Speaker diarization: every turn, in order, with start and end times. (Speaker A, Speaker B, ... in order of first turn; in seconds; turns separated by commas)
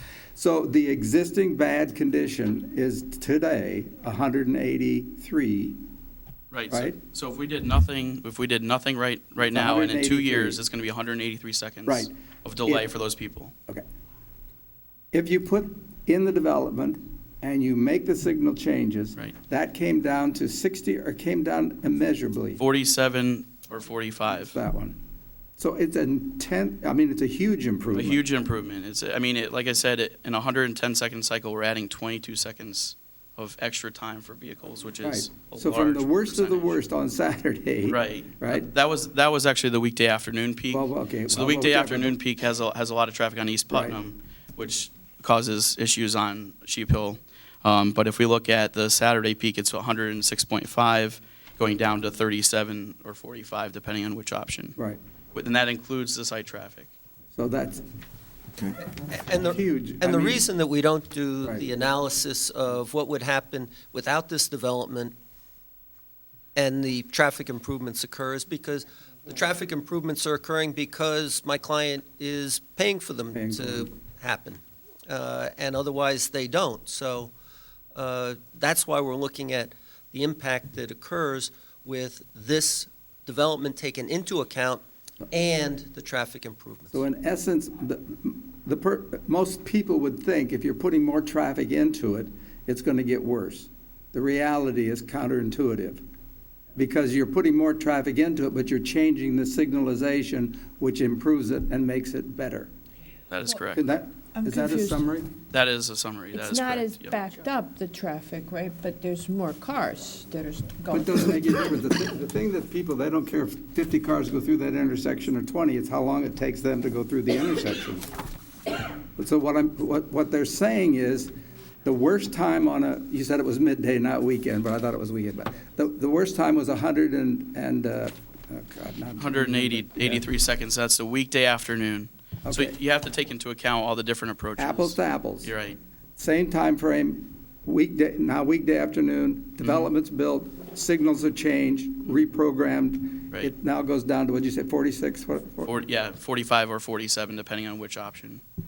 Speaker A: 0.3-5.8, Speaker B: 6.5-13.5, Speaker A: 6.7-7.0, Speaker A: 9.4-10.6, Speaker A: 11.8-12.1, Speaker A: 15.1-22.6, Speaker B: 22.6-24.6, Speaker A: 24.5-25.0, Speaker A: 25.6-28.2, Speaker B: 27.9-36.8, Speaker A: 35.0-38.7, Speaker B: 37.9-54.8, Speaker A: 40.7-42.2, Speaker A: 43.7-44.0, Speaker B: 55.3-56.9, Speaker A: 57.3-57.8, Speaker C: 59.0-65.2, Speaker A: 59.4-60.4, Speaker C: 66.5-77.3, Speaker A: 73.3-73.9, Speaker C: 77.9-87.0, Speaker A: 86.9-96.0, Speaker A: 96.8-102.7, Speaker B: 103.3-103.8, Speaker A: 103.7-105.3, Speaker D: 104.3-105.1, Speaker B: 105.5-107.2, Speaker D: 106.3-111.6, Speaker A: 110.9-118.1, Speaker A: 119.2-121.3, Speaker A: 121.8-130.2, Speaker B: 129.2-135.8, Speaker A: 132.4-132.7, Speaker A: 134.6-135.5, Speaker A: 136.2-145.7, Speaker B: 145.6-148.4